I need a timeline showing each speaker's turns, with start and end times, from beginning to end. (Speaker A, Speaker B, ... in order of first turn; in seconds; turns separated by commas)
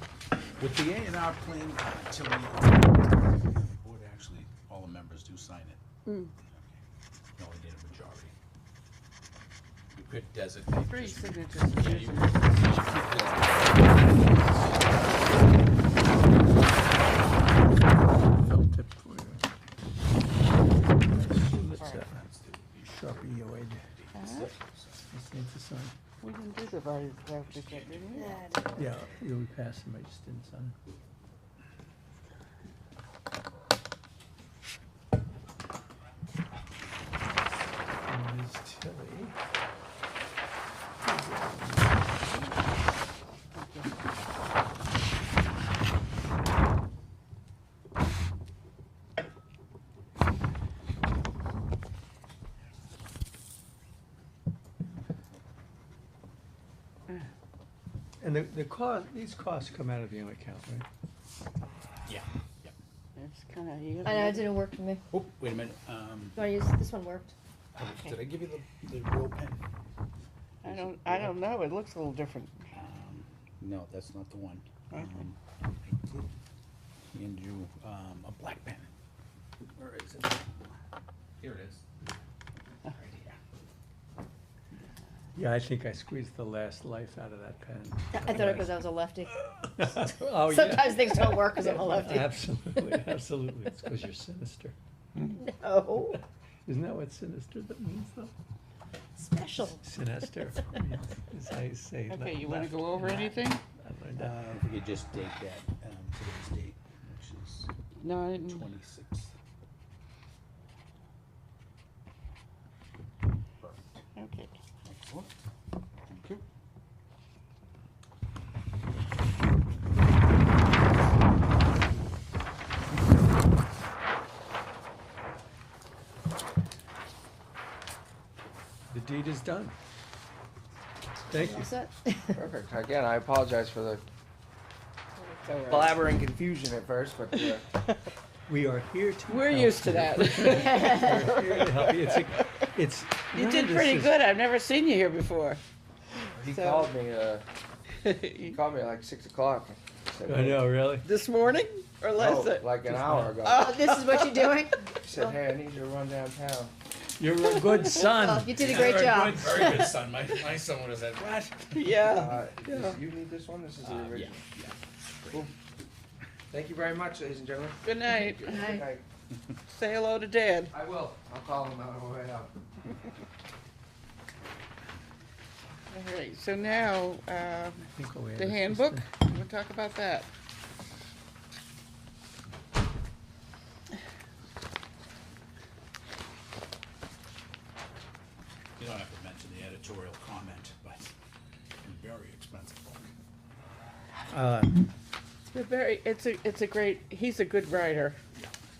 Speaker A: 0.6-5.8, Speaker B: 6.0-6.3, Speaker A: 6.5-6.8, Speaker A: 7.3-8.3, Speaker A: 9.9-15.4, Speaker B: 10.8-12.9, Speaker C: 18.3-19.4, Speaker C: 21.1-22.2, Speaker A: 21.1-25.0, Speaker C: 22.9-23.9, Speaker B: 24.1-24.5, Speaker C: 25.1-25.9, Speaker B: 26.2-28.5, Speaker A: 27.7-28.8, Speaker C: 28.7-30.8, Speaker C: 38.0-39.4, Speaker C: 41.0-42.5, Speaker B: 43.5-43.9, Speaker C: 58.2-60.9, Speaker A: 62.0-62.7, Speaker B: 63.1-64.5, Speaker D: 64.0-65.0, Speaker A: 65.1-66.5, Speaker D: 66.3-67.3, Speaker A: 67.7-69.6, Speaker B: 67.9-68.2, Speaker B: 70.6-72.7, Speaker A: 70.6-71.3, Speaker A: 72.7-76.3, Speaker A: 77.1-78.9, Speaker A: 79.8-80.7, Speaker A: 81.4-81.8, Speaker A: 82.8-83.4, Speaker C: 85.3-88.9, Speaker D: 88.1-92.4, Speaker C: 89.7-94.8, Speaker D: 95.3-96.2, Speaker C: 96.7-98.3, Speaker D: 99.1-99.8, Speaker C: 99.8-104.5, Speaker B: 102.1-103.6, Speaker A: 104.2-109.3, Speaker B: 108.0-108.7, Speaker A: 113.6-114.0, Speaker B: 114.1-114.5, Speaker A: 114.8-115.3, Speaker A: 116.1-116.4, Speaker C: 128.9-129.8, Speaker D: 131.2-132.4, Speaker C: 131.3-131.8, Speaker E: 132.3-134.0, Speaker B: 135.2-136.0, Speaker E: 135.7-137.7, Speaker C: 138.5-144.1, Speaker B: 139.3-142.6, Speaker D: 140.5-141.4, Speaker B: 143.3-145.6, Speaker E: 146.3-147.4, Speaker B: 146.4-146.9, Speaker B: 148.0-148.6, Speaker E: 148.4-150.7, Speaker C: 150.3-151.1, Speaker B: 151.0-152.9, Speaker E: 152.1-153.8, Speaker C: 152.9-153.3, Speaker B: 153.4-154.5, Speaker D: 153.4-155.2, Speaker E: 155.0-156.7, Speaker C: 157.2-159.0, Speaker D: 158.0-160.0, Speaker A: 158.5-161.9, Speaker B: 161.7-163.0, Speaker E: 162.0-164.5, Speaker A: 163.8-165.5, Speaker E: 166.5-169.0, Speaker B: 167.8-168.7, Speaker D: 168.4-168.9, Speaker B: 169.7-170.7, Speaker E: 170.7-172.5, Speaker B: 175.9-180.3, Speaker C: 177.9-179.1, Speaker A: 188.8-191.1, Speaker A: 191.8-193.1, Speaker C: 194.3-194.8, Speaker B: 195.5-198.2